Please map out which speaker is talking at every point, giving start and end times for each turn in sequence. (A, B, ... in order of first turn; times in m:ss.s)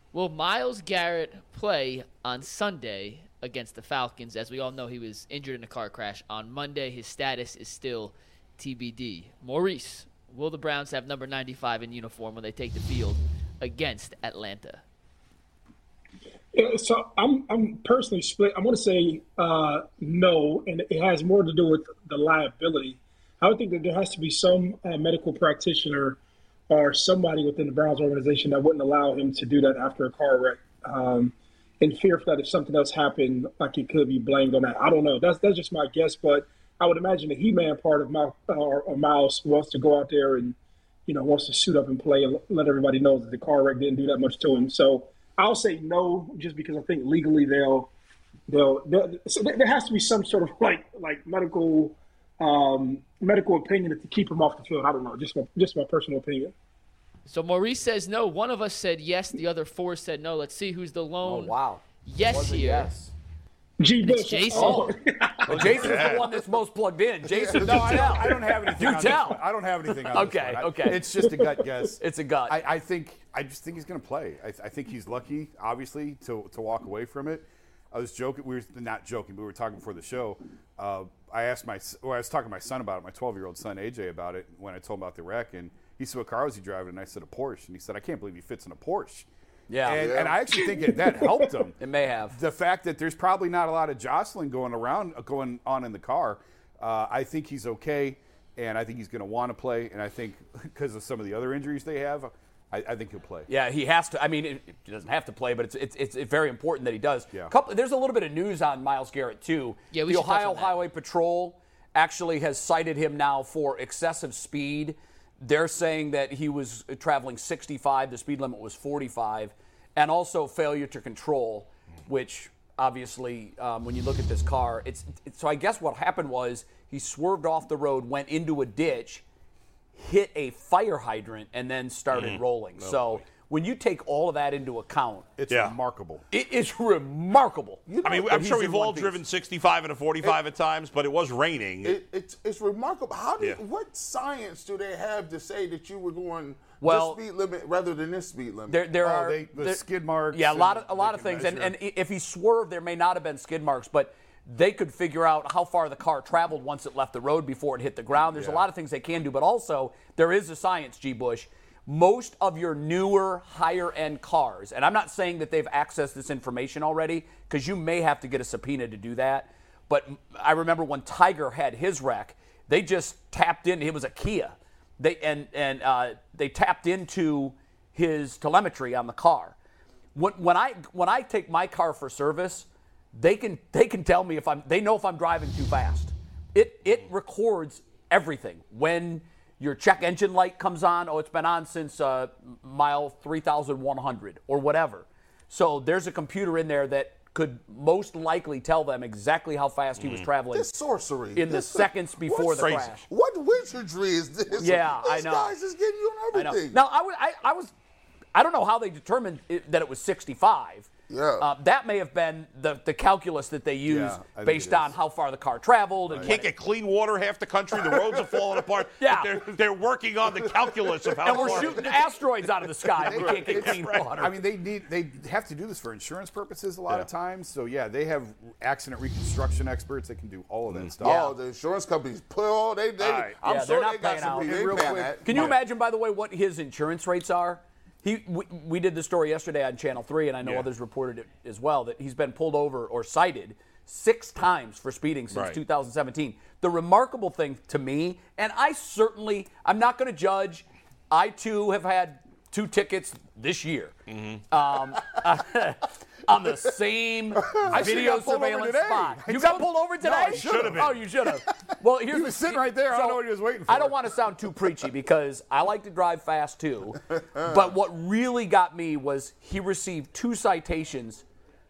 0:00.1-0:14.8 A
0:16.5-0:26.2 B
0:26.7-0:40.6 B
0:41.1-0:47.9 B
0:48.5-0:56.5 B
0:57.3-1:02.9 A
1:01.2-1:03.1 C
1:03.8-1:06.1 B
1:04.0-1:04.9 A
1:04.5-1:05.0 C
1:05.5-1:09.4 C
1:05.5-1:06.3 D
1:07.3-1:08.6 E
1:07.5-1:29.3 F
1:10.1-1:11.1 C
1:11.1-1:11.9 B
1:12.0-1:12.6 C
1:29.7-1:30.0 C
1:29.8-1:31.8 F
1:29.9-1:30.4 E
1:31.2-1:31.4 B
1:31.8-1:32.4 C
1:32.3-1:43.5 F
1:43.5-2:09.2 C
1:49.9-1:50.8 A
2:10.0-2:15.3 C
2:12.1-2:13.2 D
2:15.4-2:16.2 F
2:15.5-2:15.8 D
2:16.3-2:19.2 C
2:17.9-2:18.5 E
2:18.0-2:22.0 D
2:21.8-2:28.8 E
2:26.8-2:27.2 C
2:28.7-2:59.6 C
2:29.0-2:31.8 F
2:38.3-2:38.7 F
3:00.2-3:20.7 C
3:20.0-3:20.3 D
3:20.5-3:26.8 E
3:21.4-3:23.1 C
3:22.6-3:22.9 D
3:24.6-3:25.6 C
3:26.3-3:27.7 C
3:28.3-3:36.5 C
3:31.1-3:31.5 E
3:33.9-3:35.0 F
3:36.2-3:41.9 D
3:39.0-3:39.3 C
3:41.2-3:41.5 E
3:41.2-3:44.4 C
3:43.0-3:51.3 F
3:43.0-3:44.1 D
3:51.0-3:55.5 E
3:51.0-3:51.3 C
3:53.0-3:53.4 D
3:53.4-4:14.0 C
3:54.1-3:55.6 F
4:00.4-4:00.7 D
4:05.3-4:05.6 D
4:14.1-4:14.4 D
4:14.5-4:31.2 C
4:17.6-4:24.7 F
4:20.1-4:21.0 D